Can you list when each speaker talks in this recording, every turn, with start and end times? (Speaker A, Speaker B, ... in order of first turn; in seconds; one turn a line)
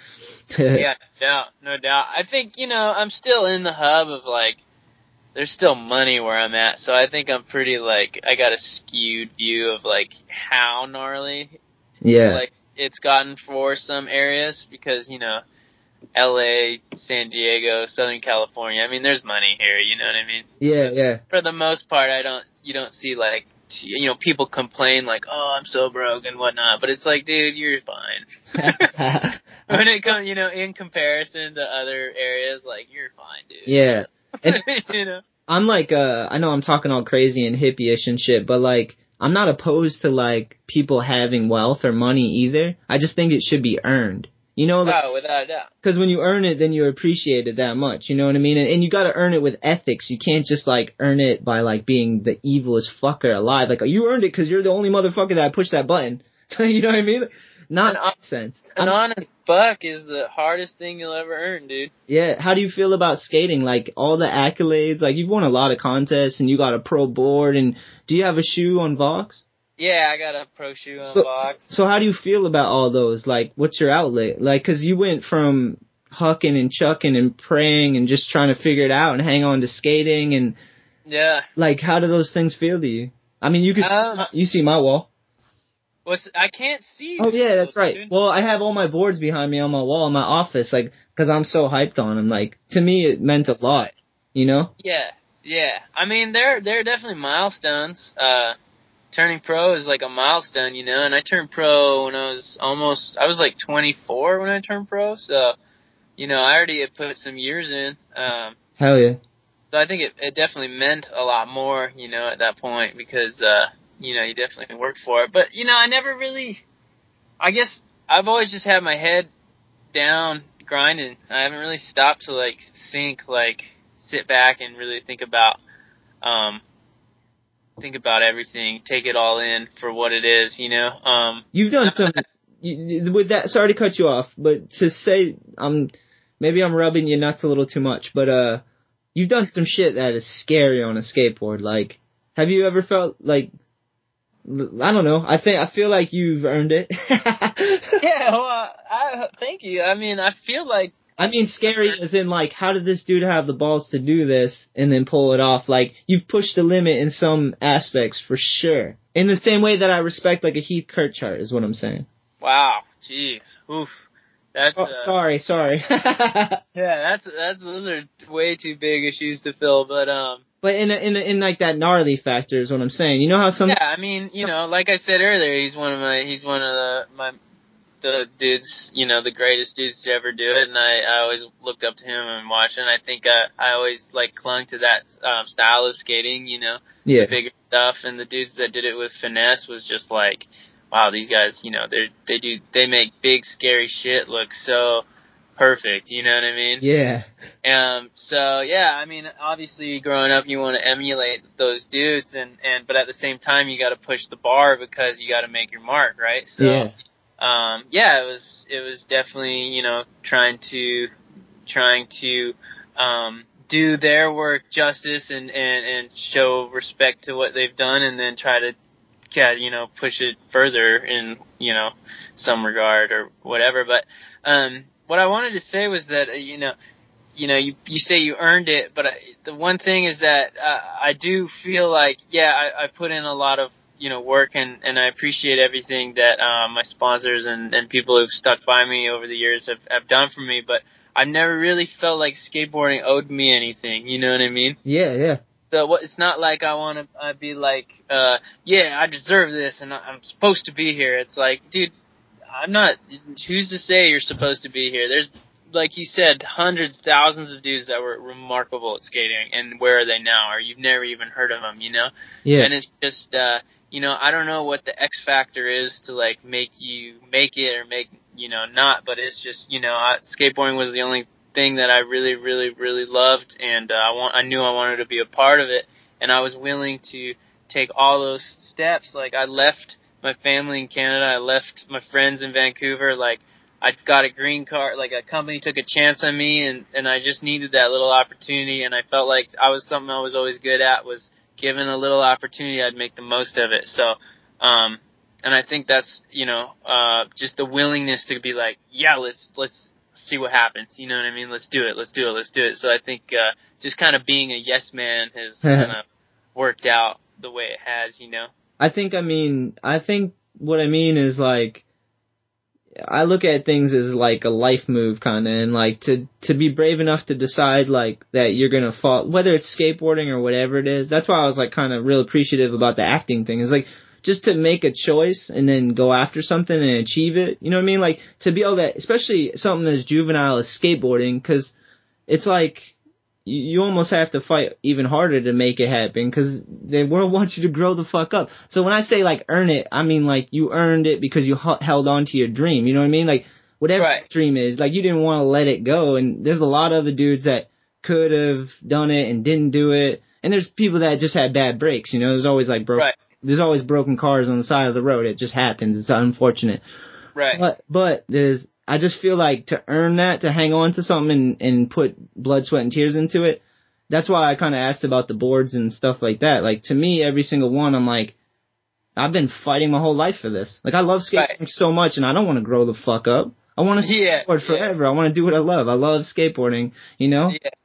Speaker A: 0.5-0.9
Speaker B: 0.7-4.6
Speaker B: 5.3-11.6
Speaker A: 12.0-12.4
Speaker B: 12.3-15.4
Speaker B: 16.1-28.9
Speaker A: 20.6-21.2
Speaker A: 28.6-29.8
Speaker B: 29.7-33.9
Speaker A: 33.7-34.6
Speaker B: 34.4-35.2
Speaker A: 35.5-45.0
Speaker B: 44.8-45.7
Speaker A: 45.8-59.0
Speaker B: 58.8-61.9
Speaker A: 62.1-69.4
Speaker B: 69.8-71.7
Speaker A: 71.0-80.6
Speaker B: 81.0-81.5
Speaker A: 81.5-85.1
Speaker B: 83.8-84.3
Speaker B: 86.0-88.1
Speaker A: 87.2-94.7
Speaker B: 93.6-93.9
Speaker B: 94.8-98.5
Speaker B: 99.1-105.5
Speaker B: 106.2-108.5
Speaker A: 108.8-109.2
Speaker B: 109.7-116.6
Speaker B: 117.4-119.3
Speaker B: 119.9-125.6
Speaker B: 126.2-126.6
Speaker B: 127.8-132.2
Speaker A: 131.5-143.5
Speaker A: 144.4-148.0
Speaker B: 148.0-152.0
Speaker A: 151.2-162.1
Speaker B: 162.4-165.1
Speaker A: 164.6-166.6
Speaker B: 166.7-170.4
Speaker A: 170.6-173.8
Speaker B: 173.7-177.4
Speaker B: 178.0-195.0
Speaker A: 187.0-187.3
Speaker B: 195.6-196.8
Speaker A: 196.8-197.3
Speaker B: 197.6-211.1
Speaker A: 206.6-206.9
Speaker B: 211.7-218.8
Speaker B: 219.3-226.7
Speaker B: 227.3-244.8
Speaker A: 244.8-245.4
Speaker B: 245.7-251.9
Speaker B: 252.5-306.0
Speaker A: 262.4-262.7
Speaker A: 305.6-305.9
Speaker B: 306.5-308.5
Speaker A: 308.8-311.8
Speaker A: 313.1-331.7
Speaker A: 332.3-356.8
Speaker B: 344.0-344.2
Speaker B: 357.4-357.6
Speaker A: 357.5-368.3
Speaker A: 369.1-377.6
Speaker B: 371.3-371.6
Speaker B: 374.0-374.9